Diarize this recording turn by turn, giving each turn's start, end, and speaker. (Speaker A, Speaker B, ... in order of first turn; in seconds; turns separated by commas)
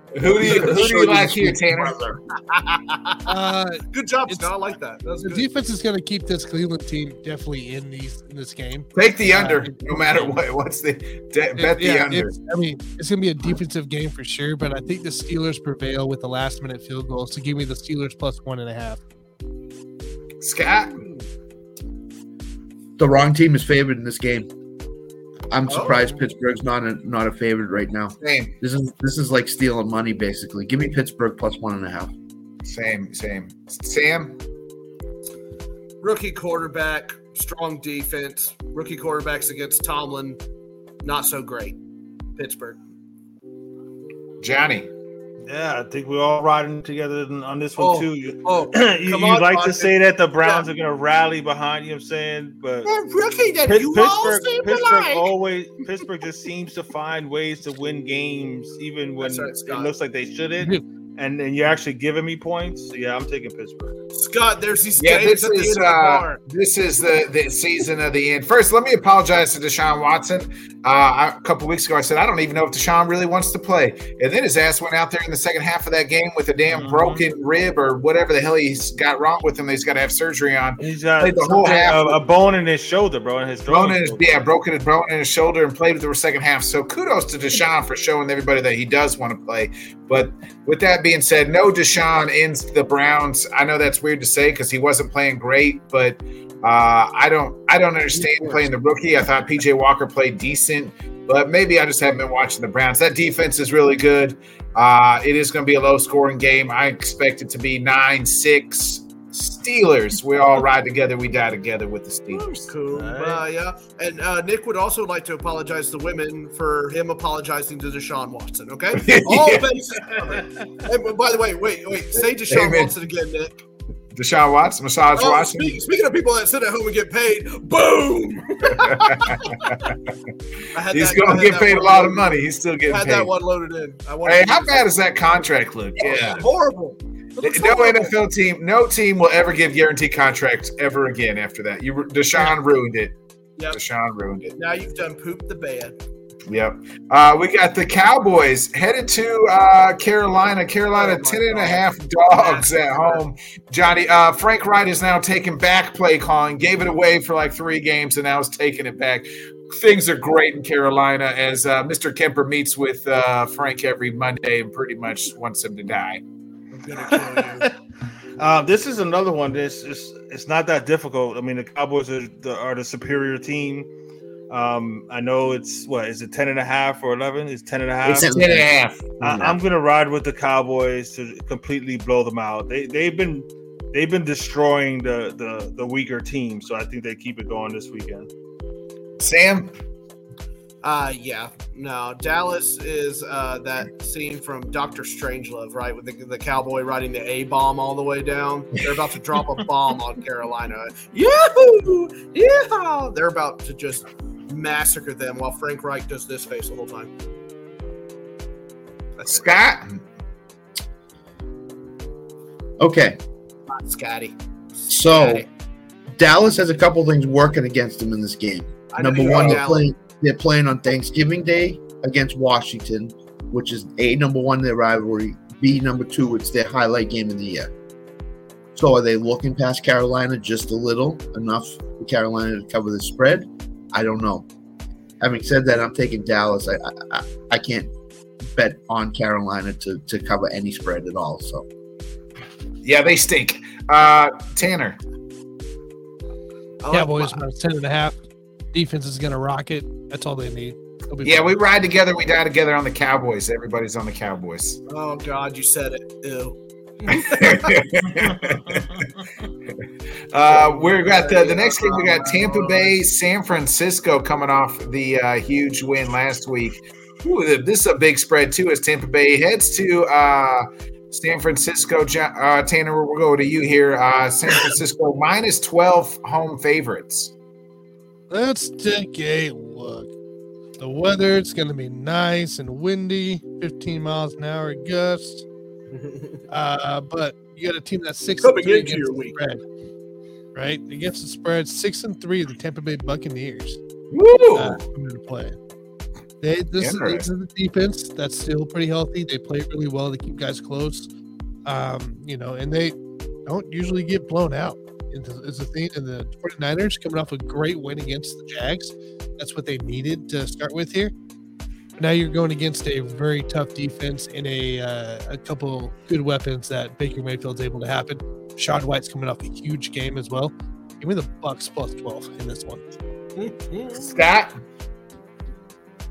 Speaker A: 0.1-2.0, Speaker B: 0.3-2.2, Speaker C: 2.5-3.3, Speaker D: 3.3-4.5, Speaker C: 3.9-5.5, Speaker D: 5.2-9.8, Speaker A: 8.9-12.3, Speaker D: 11.6-19.0, Speaker A: 20.4-21.0, Speaker C: 20.9-21.2, Speaker B: 23.0-24.5, Speaker B: 25.5-32.1, Speaker C: 25.7-26.1, Speaker A: 28.2-28.5, Speaker A: 32.6-34.4, Speaker C: 36.0-40.4, Speaker C: 41.0-41.8, Speaker C: 42.4-42.8, Speaker A: 44.4-44.9, Speaker E: 45.5-52.9, Speaker C: 47.8-50.6, Speaker C: 52.8-55.3, Speaker E: 53.7-63.9, Speaker C: 59.2-59.9, Speaker C: 64.1-66.4, Speaker A: 65.0-82.2, Speaker E: 76.7-77.2, Speaker E: 80.8-84.3, Speaker A: 83.7-112.7, Speaker C: 112.3-123.5, Speaker E: 112.9-113.4, Speaker A: 119.0-119.7, Speaker A: 122.2-122.9, Speaker A: 124.1-125.8, Speaker C: 125.1-129.7, Speaker A: 128.7-130.0, Speaker C: 130.7-134.9, Speaker A: 130.9-133.3, Speaker A: 134.2-136.4, Speaker C: 136.0-138.2, Speaker A: 137.4-143.1, Speaker A: 143.7-144.5, Speaker C: 144.6-145.9, Speaker A: 146.5-166.2, Speaker C: 150.9-153.2, Speaker C: 166.7-167.7, Speaker E: 167.4-167.7, Speaker E: 168.4-173.9, Speaker E: 174.5-178.6, Speaker A: 178.0-179.2, Speaker B: 178.1-178.7, Speaker E: 179.2-188.3, Speaker B: 179.2-179.5, Speaker A: 189.2-189.8, Speaker C: 190.8-207.1, Speaker C: 209.2-209.4, Speaker A: 209.3-210.0, Speaker B: 212.8-213.2, Speaker C: 213.8-215.4, Speaker B: 214.9-215.4, Speaker B: 216.1-227.7, Speaker C: 218.9-219.9, Speaker B: 228.7-234.4, Speaker B: 235.2-237.9, Speaker B: 238.4-241.7, Speaker A: 242.8-245.0, Speaker C: 246.8-247.4, Speaker D: 246.9-248.2, Speaker D: 248.7-251.5, Speaker A: 251.2-254.8, Speaker C: 254.9-257.8, Speaker A: 257.1-259.0, Speaker A: 260.3-277.3, Speaker C: 260.5-263.0, Speaker D: 278.3-280.1, Speaker D: 280.8-285.4, Speaker C: 285.9-286.4, Speaker D: 286.5-289.6, Speaker C: 288.4-289.4, Speaker D: 290.5-293.8, Speaker A: 294.1-294.8, Speaker D: 294.5-295.6, Speaker D: 296.4-301.1, Speaker A: 296.8-297.2, Speaker D: 301.6-311.1, Speaker D: 312.0-322.8, Speaker C: 323.4-324.2, Speaker A: 323.9-324.5